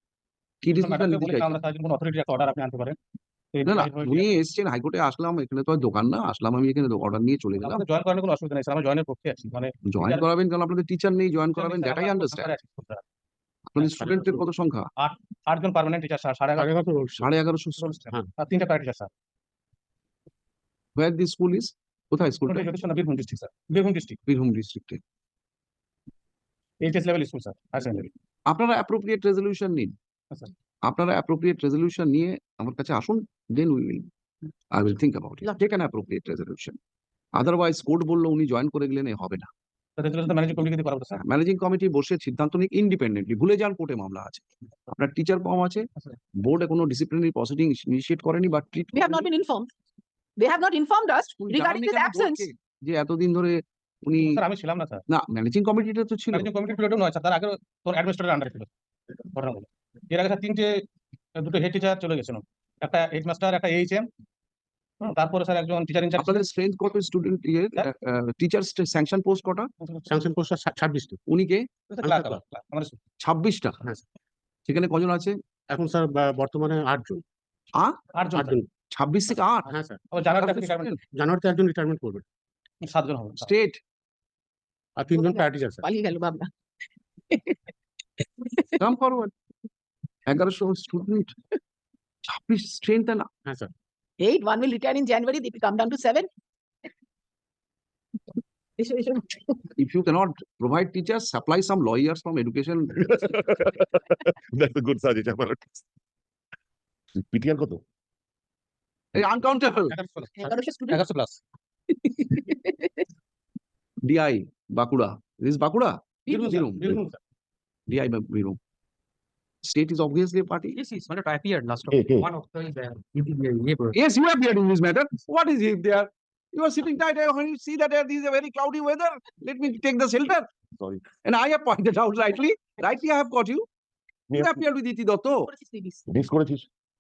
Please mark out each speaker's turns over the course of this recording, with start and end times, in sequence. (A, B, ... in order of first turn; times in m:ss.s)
0:00.6-0:01.5 A
0:00.7-0:03.0 B
0:03.5-0:04.3 B
0:03.6-0:07.8 A
0:07.6-0:10.2 B
0:09.8-0:12.5 A
0:11.6-0:13.0 B
0:13.7-0:14.9 A
0:13.8-0:14.4 B
0:15.0-0:16.7 B
0:16.6-0:17.3 C
0:17.2-0:17.9 A
0:17.8-0:19.1 B
0:21.0-0:22.7 A
0:22.5-0:24.2 B
0:24.3-0:25.0 A
0:26.8-0:28.1 B
0:28.5-0:29.9 A
0:30.8-0:34.1 A
0:34.7-0:36.8 A
0:37.3-0:39.5 A
0:40.0-0:41.2 B
0:41.2-0:49.3 A
0:48.9-0:49.7 D
0:50.4-0:52.4 D
0:51.4-0:54.4 A
0:54.2-0:55.0 B
0:55.1-0:56.5 A
0:56.3-0:58.7 B
0:59.2-1:04.1 B
1:05.0-1:06.5 B
1:06.2-1:09.7 A
1:09.8-1:10.2 B
1:10.1-1:11.2 C
1:11.3-1:11.7 A
1:11.9-1:13.0 B
1:12.0-1:12.4 C
1:13.2-1:13.8 A
1:14.6-1:15.4 A
1:15.7-1:17.2 C
1:18.1-1:18.6 B
1:18.3-1:18.7 C
1:18.9-1:19.7 A
1:19.7-1:20.0 C
1:20.1-1:21.0 B
1:20.3-1:21.0 A
1:21.0-1:22.2 C
1:22.8-1:23.5 B
1:23.4-1:23.8 A
1:25.0-1:25.8 C
1:25.1-1:26.5 D
1:27.3-1:28.8 D
1:28.8-1:29.3 A
1:30.2-1:31.3 A
1:32.2-1:33.3 A
1:33.4-1:33.7 C
1:34.2-1:36.3 D
1:38.8-1:39.7 D
1:39.8-1:43.1 A
1:43.0-1:45.8 E
1:47.1-1:47.8 E
1:49.1-1:49.9 A
1:49.9-1:51.4 B
1:50.3-1:51.0 D
1:51.9-1:53.0 D
1:54.0-1:57.0 A
1:56.3-1:57.2 B
1:57.9-1:58.6 A
1:59.6-2:00.8 A
2:00.7-2:04.0 F
2:01.9-2:02.3 E
2:03.9-2:10.5 A
2:10.8-2:11.0 E
2:11.2-2:13.7 A
2:14.3-2:14.6 E
2:14.3-2:15.5 A
2:15.5-2:16.0 D
2:16.1-2:16.7 E